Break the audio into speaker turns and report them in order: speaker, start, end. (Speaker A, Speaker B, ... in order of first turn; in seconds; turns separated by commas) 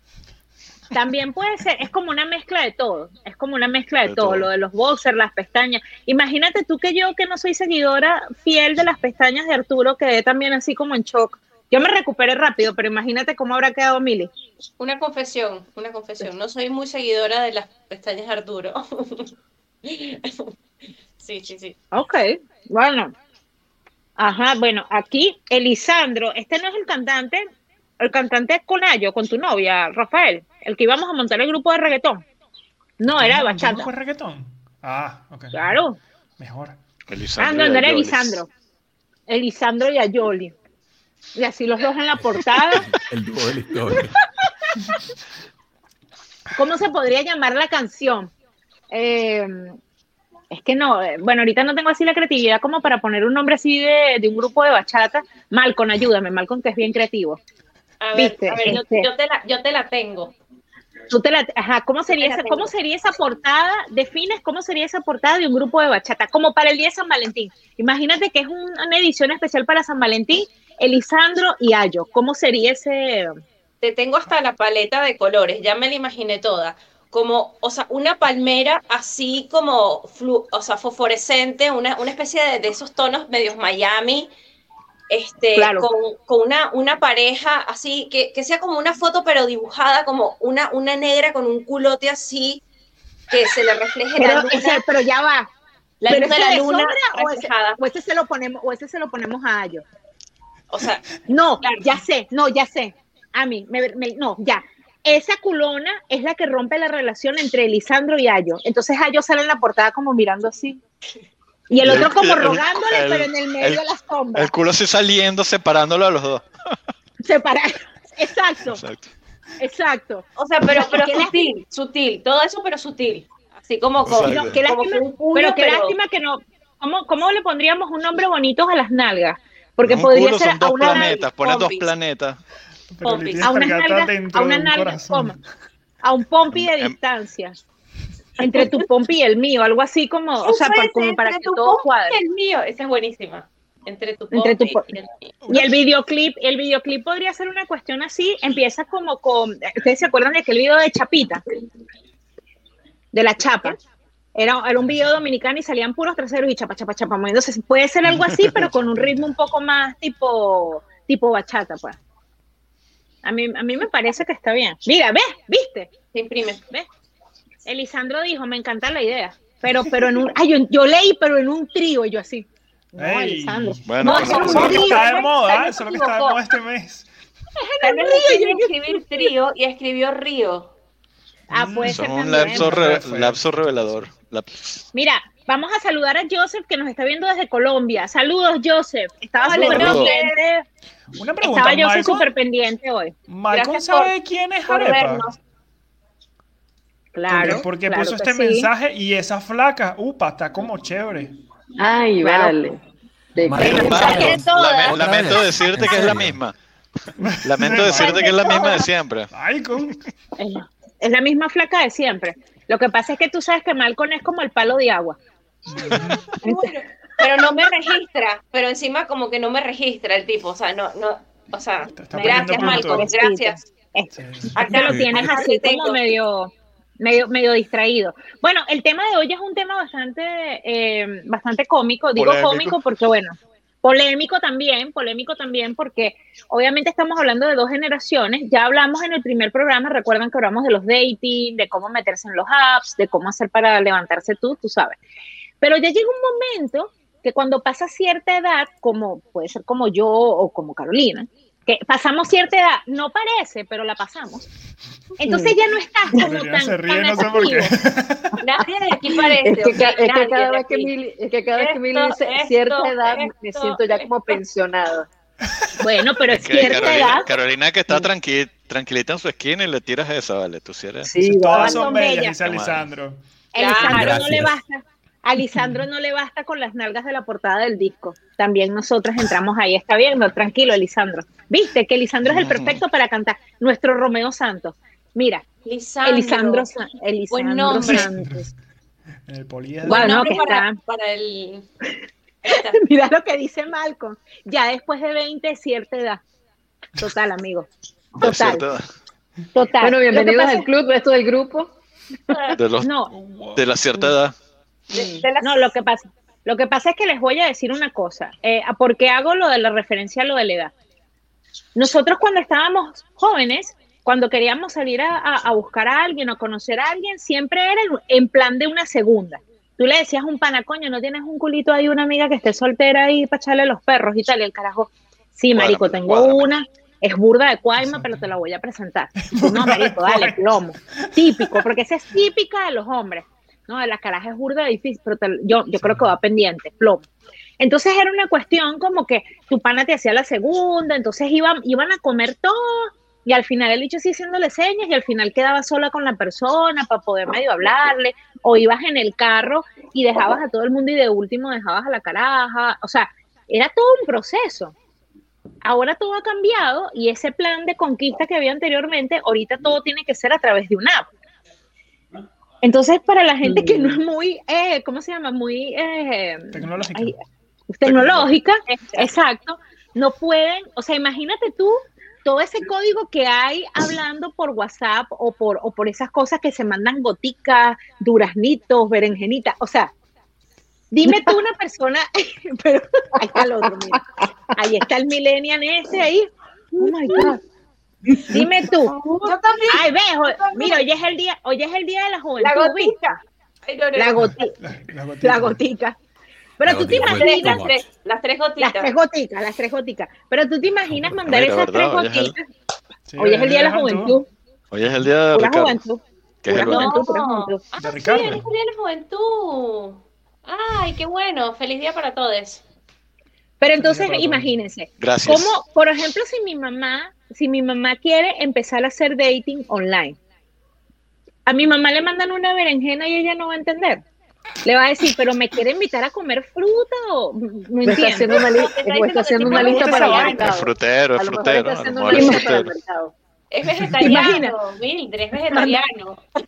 Speaker A: 0.9-14.3, Speaker B: 4.1-4.5, Speaker C: 14.8-19.3, Speaker C: 19.8-20.5, Speaker C: 21.2-21.8, Speaker A: 21.9-23.1, Speaker A: 24.2-27.5, Speaker A: 28.0-32.2, Speaker A: 33.0-33.9, Speaker D: 33.1-35.8, Speaker A: 35.5-36.0, Speaker D: 36.4-36.8, Speaker B: 37.1-38.4, Speaker A: 37.4-38.5, Speaker A: 39.3-40.5, Speaker A: 41.4-42.9, Speaker E: 42.2-44.2, Speaker A: 46.5-48.3, Speaker A: 48.9-49.8, Speaker A: 50.5-57.4, Speaker C: 58.0-60.3, Speaker A: 58.1-59.1, Speaker A: 61.1-73.3, Speaker C: 62.1-62.7, Speaker C: 73.8-84.3, Speaker C: 85.1-92.6, Speaker A: 85.6-85.9, Speaker C: 93.3-94.9, Speaker A: 94.2-95.5, Speaker C: 96.0-97.8, Speaker A: 96.1-99.8, Speaker C: 100.7-101.0, Speaker A: 101.3-110.8, Speaker A: 111.7-114.5, Speaker B: 111.8-113.8, Speaker B: 114.3-116.5, Speaker A: 117.2-118.8, Speaker B: 118.7-119.1, Speaker A: 119.6-121.5, Speaker C: 120.4-125.9, Speaker B: 124.0-124.6, Speaker A: 124.2-131.2, Speaker B: 129.8-132.4, Speaker C: 130.8-131.9, Speaker D: 132.9-135.4, Speaker C: 133.0-133.6, Speaker A: 133.4-135.4, Speaker A: 136.0-137.6, Speaker B: 136.5-136.9, Speaker A: 138.4-142.2, Speaker C: 140.4-145.3, Speaker A: 144.3-144.9, Speaker D: 145.4-145.8, Speaker A: 145.5-151.4, Speaker A: 153.1-153.8, Speaker A: 154.4-162.0, Speaker D: 158.2-159.2, Speaker A: 163.2-165.9, Speaker C: 166.1-166.6, Speaker A: 167.7-175.3, Speaker D: 169.8-170.1, Speaker D: 173.0-177.1, Speaker B: 173.9-174.9, Speaker C: 174.0-176.4, Speaker A: 177.6-179.3, Speaker C: 177.8-180.7, Speaker A: 181.5-182.9, Speaker D: 181.5-184.0, Speaker B: 181.9-184.8, Speaker A: 184.9-190.7, Speaker C: 189.4-190.4, Speaker B: 189.5-190.1, Speaker D: 191.2-192.3, Speaker A: 191.4-193.2, Speaker D: 193.3-195.2, Speaker C: 193.5-194.1, Speaker C: 194.7-195.4, Speaker A: 197.2-198.7, Speaker D: 197.3-201.3, Speaker F: 201.8-202.8, Speaker A: 202.2-202.5, Speaker F: 203.3-204.3, Speaker E: 203.4-206.4, Speaker A: 203.6-206.1, Speaker B: 203.6-206.6, Speaker D: 207.2-208.5, Speaker B: 207.4-209.3, Speaker A: 207.8-208.8, Speaker D: 209.3-210.0, Speaker A: 210.4-215.2, Speaker D: 215.7-216.3, Speaker C: 216.2-223.6, Speaker A: 216.3-216.7, Speaker D: 222.0-223.1, Speaker A: 222.1-245.0, Speaker D: 224.1-224.6, Speaker C: 224.6-226.0, Speaker B: 232.2-232.8, Speaker A: 245.6-254.5, Speaker A: 255.2-257.8, Speaker F: 255.3-255.6, Speaker D: 256.1-258.4, Speaker C: 258.4-260.9, Speaker F: 259.4-265.1, Speaker C: 261.5-264.4, Speaker A: 265.8-267.3, Speaker B: 266.3-271.1, Speaker F: 271.1-271.9, Speaker D: 271.2-273.2, Speaker A: 271.6-272.4, Speaker B: 272.4-272.9, Speaker A: 273.5-285.4, Speaker C: 273.6-274.2, Speaker E: 273.9-274.5, Speaker D: 275.6-275.8, Speaker B: 282.3-282.8, Speaker C: 285.6-286.7, Speaker A: 286.0-288.5, Speaker C: 287.3-288.1, Speaker D: 287.7-288.5, Speaker D: 289.3-290.4, Speaker A: 289.8-290.8, Speaker C: 289.9-291.7, Speaker C: 292.4-292.8, Speaker A: 292.5-296.2, Speaker A: 297.0-298.7, Speaker B: 298.2-298.9, Speaker A: 299.6-300.7, Speaker F: 299.8-301.7, Speaker C: 302.3-302.6, Speaker B: 302.6-302.9, Speaker A: 302.8-303.1, Speaker D: 303.1-303.7, Speaker B: 303.6-304.4, Speaker C: 304.9-305.7, Speaker F: 304.9-305.2, Speaker A: 305.4-310.7, Speaker A: 311.8-337.1, Speaker B: 325.5-326.5, Speaker D: 327.8-328.3, Speaker D: 329.2-330.4, Speaker D: 331.1-331.6, Speaker D: 335.8-336.1, Speaker A: 337.6-354.7, Speaker A: 355.6-361.1, Speaker A: 362.6-367.1, Speaker F: 363.4-364.0, Speaker D: 366.5-367.2, Speaker A: 367.7-379.9, Speaker B: 367.9-368.3, Speaker C: 368.7-369.1, Speaker A: 380.9-387.4, Speaker F: 381.1-381.3, Speaker F: 383.4-384.2, Speaker F: 386.8-387.4, Speaker F: 388.1-389.3, Speaker A: 388.3-393.0, Speaker C: 389.2-390.8, Speaker C: 392.4-394.4, Speaker A: 394.0-394.6, Speaker D: 394.2-395.6, Speaker A: 395.2-396.0, Speaker A: 396.6-397.6, Speaker E: 396.6-397.8, Speaker C: 397.0-398.9, Speaker A: 398.6-402.5, Speaker B: 401.3-402.4, Speaker D: 403.1-404.2, Speaker A: 403.2-404.3, Speaker B: 404.7-405.8, Speaker A: 405.3-407.6, Speaker B: 406.4-407.0, Speaker C: 406.6-412.6, Speaker D: 407.8-408.5, Speaker A: 413.6-420.2, Speaker D: 413.8-414.6, Speaker B: 415.0-415.5, Speaker A: 421.5-424.0, Speaker A: 424.6-428.4, Speaker F: 427.8-433.1, Speaker C: 428.3-430.4, Speaker D: 429.4-430.6, Speaker A: 429.8-430.3, Speaker B: 430.4-432.7, Speaker A: 432.1-432.5, Speaker C: 433.5-436.2, Speaker A: 434.0-434.6, Speaker A: 435.5-435.8